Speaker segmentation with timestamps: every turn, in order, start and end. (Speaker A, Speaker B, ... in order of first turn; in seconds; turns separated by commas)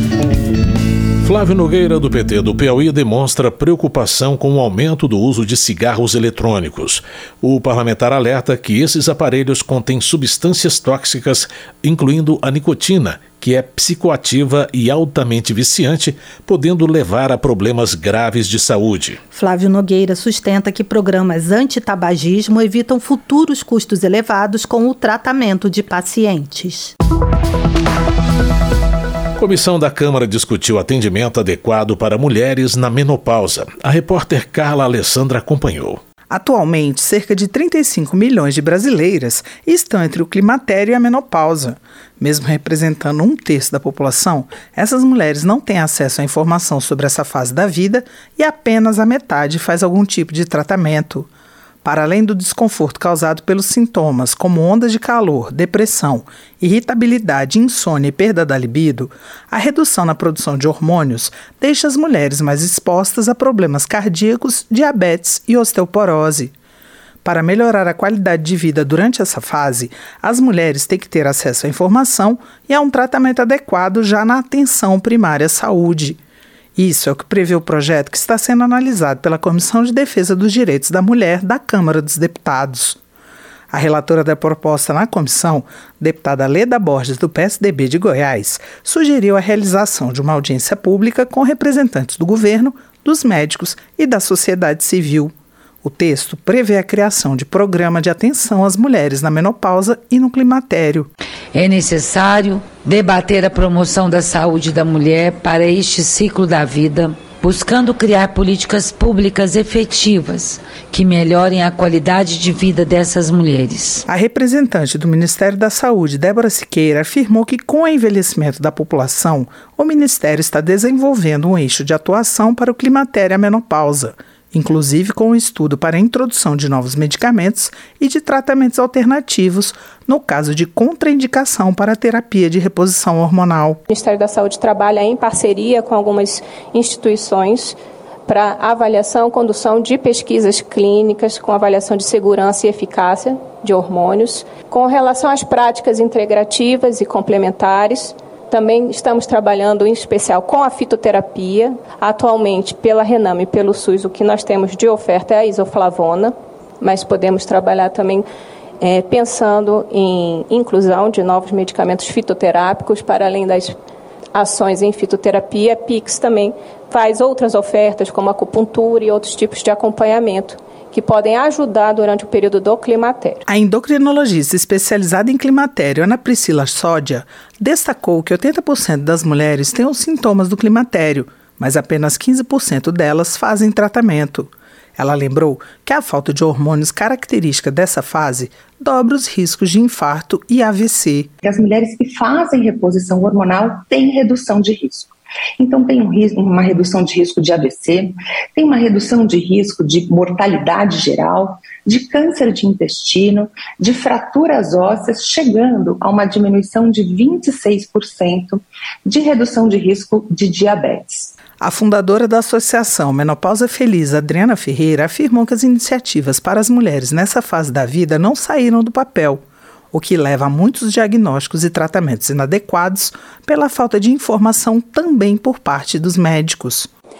Speaker A: 1.2-19.2, Speaker B: 19.3-26.9, Speaker A: 29.4-36.0, Speaker C: 36.3-51.3, Speaker C: 51.8-66.5, Speaker C: 67.2-76.2, Speaker C: 76.8-83.0, Speaker C: 83.7-101.1, Speaker D: 101.5-114.0, Speaker C: 114.1-133.8, Speaker E: 133.9-158.3, Speaker E: 158.8-163.8, Speaker E: 164.3-173.4, Speaker C: 173.5-191.3, Speaker F: 191.4-211.4, Speaker C: 211.6-226.9